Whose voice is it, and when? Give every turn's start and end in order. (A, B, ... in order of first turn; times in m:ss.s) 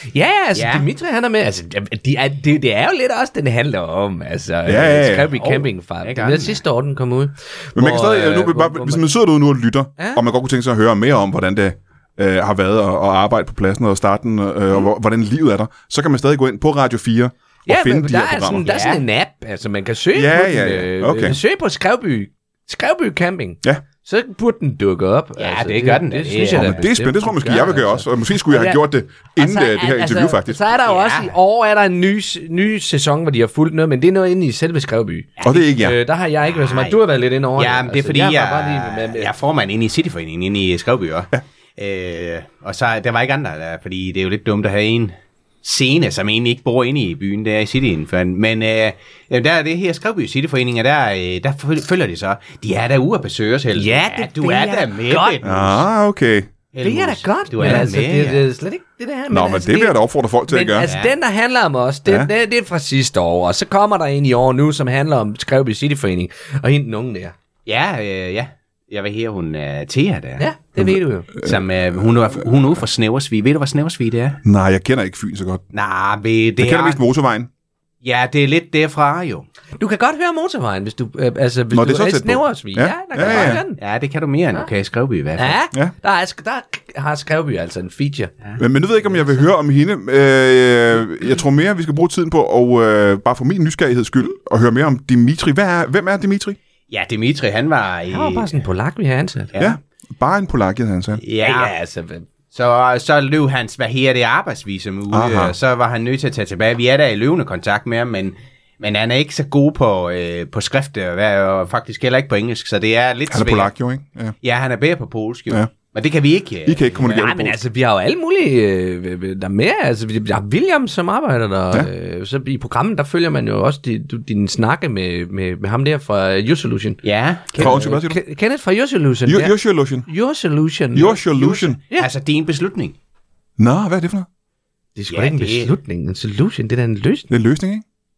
0:00.1-0:09.0 A
0:00.5-0:00.9 B
0:04.6-0:05.3 C
0:05.4-0:06.6 B
0:07.7-0:18.7 C
0:17.7-0:28.8 A
0:18.6-0:19.0 B
0:20.1-0:21.4 C
0:25.4-0:26.8 B
0:26.5-0:30.6 C
0:29.3-0:39.3 A
0:30.8-0:31.3 B
0:35.4-0:35.6 B
0:35.4-0:36.0 C
0:36.5-0:37.0 B
0:37.6-0:55.8 B
0:53.7-0:55.4 A
0:55.4-0:56.5 C
0:56.7-0:58.4 B
0:56.8-1:07.3 A
0:59.3-1:00.9 C
1:00.8-1:01.2 B
1:07.6-1:10.5 B
1:10.4-1:11.3 A
1:10.8-1:11.5 C
1:11.4-1:14.4 B
1:14.4-1:15.6 C
1:15.7-1:17.0 B
1:16.6-1:17.5 C
1:18.0-1:19.5 B
1:19.8-1:23.8 A
1:21.7-1:23.6 C
1:23.2-1:25.6 B
1:25.4-1:28.3 A
1:28.6-1:36.6 C
1:36.9-1:38.5 B
1:38.1-1:39.5 A
1:39.5-1:39.8 B
1:39.6-1:41.2 C
1:41.2-1:41.7 B
1:41.4-1:42.2 A
1:42.5-1:53.7 B
1:45.1-1:45.5 C
1:53.3-1:54.4 C
1:54.4-1:57.1 B
1:56.6-1:57.6 C
1:57.1-2:07.0 A
2:07.0-2:07.8 B
2:07.5-2:11.2 A
2:07.6-2:08.2 C
2:09.2-2:10.1 C
2:10.9-2:11.8 C
2:11.0-2:13.0 B
2:13.6-2:14.3 C
2:15.0-2:17.3 A
2:15.1-2:15.7 B
2:17.3-2:17.8 C